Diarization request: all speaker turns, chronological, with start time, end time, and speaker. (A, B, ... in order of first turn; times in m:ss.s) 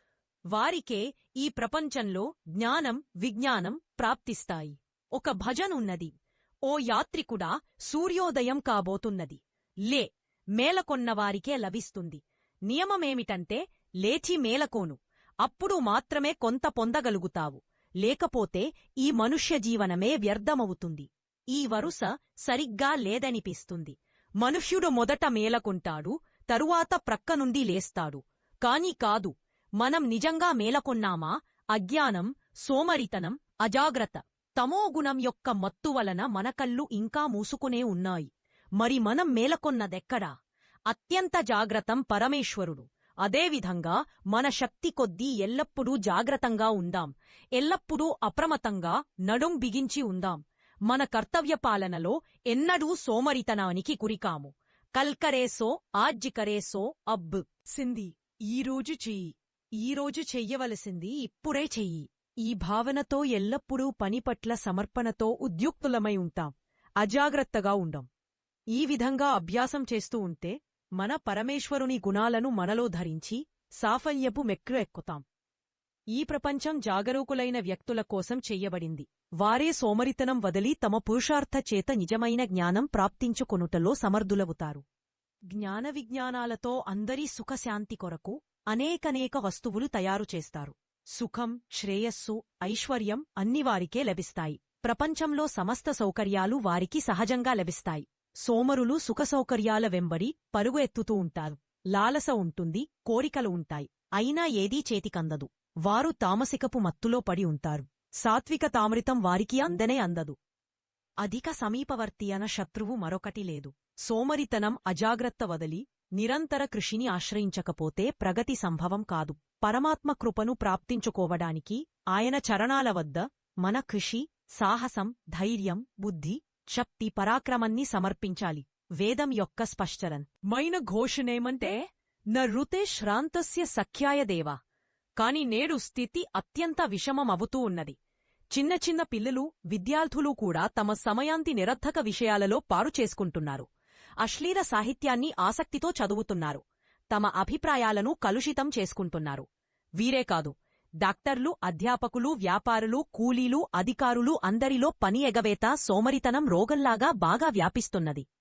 0:00.5-0:06.1 A
0:06.7-0:40.3 A
0:40.9-1:08.1 A
1:08.7-1:15.2 A
1:16.1-1:24.8 A
1:25.5-1:50.4 A
1:51.2-2:11.8 A
2:12.3-2:14.6 A
2:15.2-2:18.0 A
2:18.5-2:23.6 A
2:24.2-2:29.4 A
2:30.0-2:38.2 A